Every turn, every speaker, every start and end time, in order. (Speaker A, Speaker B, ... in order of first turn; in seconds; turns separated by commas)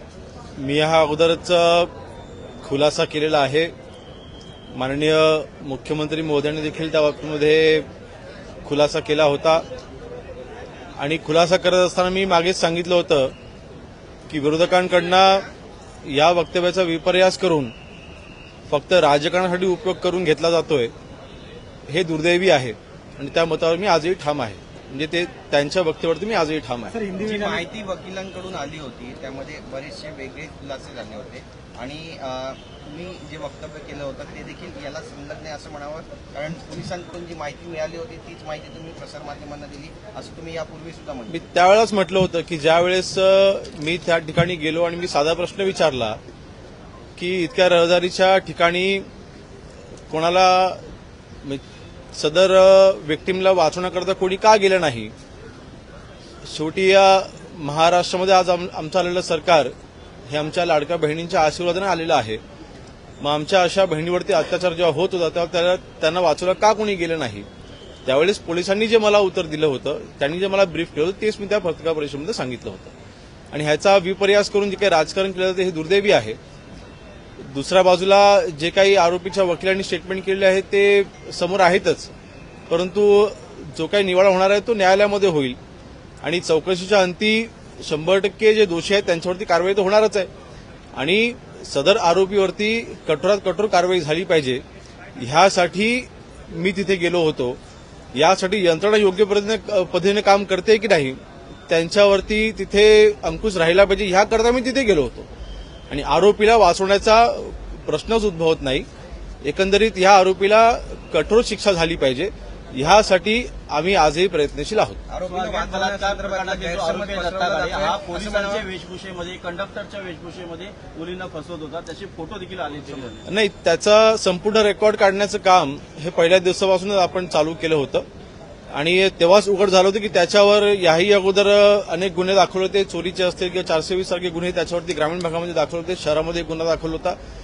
Speaker A: 0.6-1.9, Speaker A: 2.6-3.7, Speaker A: 4.7-7.9, Speaker A: 8.7-9.7, Speaker A: 11.0-13.3, Speaker A: 14.3-15.5, Speaker A: 16.1-17.7, Speaker A: 18.7-20.9, Speaker A: 21.9-27.1, Speaker B: 27.1-41.4, Speaker A: 41.3-46.2, Speaker A: 47.2-49.1, Speaker A: 50.1-50.8, Speaker A: 52.1-55.1, Speaker A: 56.5-59.7, Speaker A: 60.3-62.4, Speaker A: 63.2-67.5, Speaker A: 68.1-72.9, Speaker A: 73.5-76.4, Speaker A: 77.4-82.1, Speaker A: 82.7-85.6, Speaker A: 86.2-90.3, Speaker A: 91.0-94.6, Speaker A: 95.2-97.6, Speaker A: 98.1-105.3, Speaker A: 105.9-108.9, Speaker A: 109.4-115.0, Speaker B: 115.1-118.7, Speaker C: 115.2-123.2, Speaker A: 123.3-128.1, Speaker A: 128.7-137.2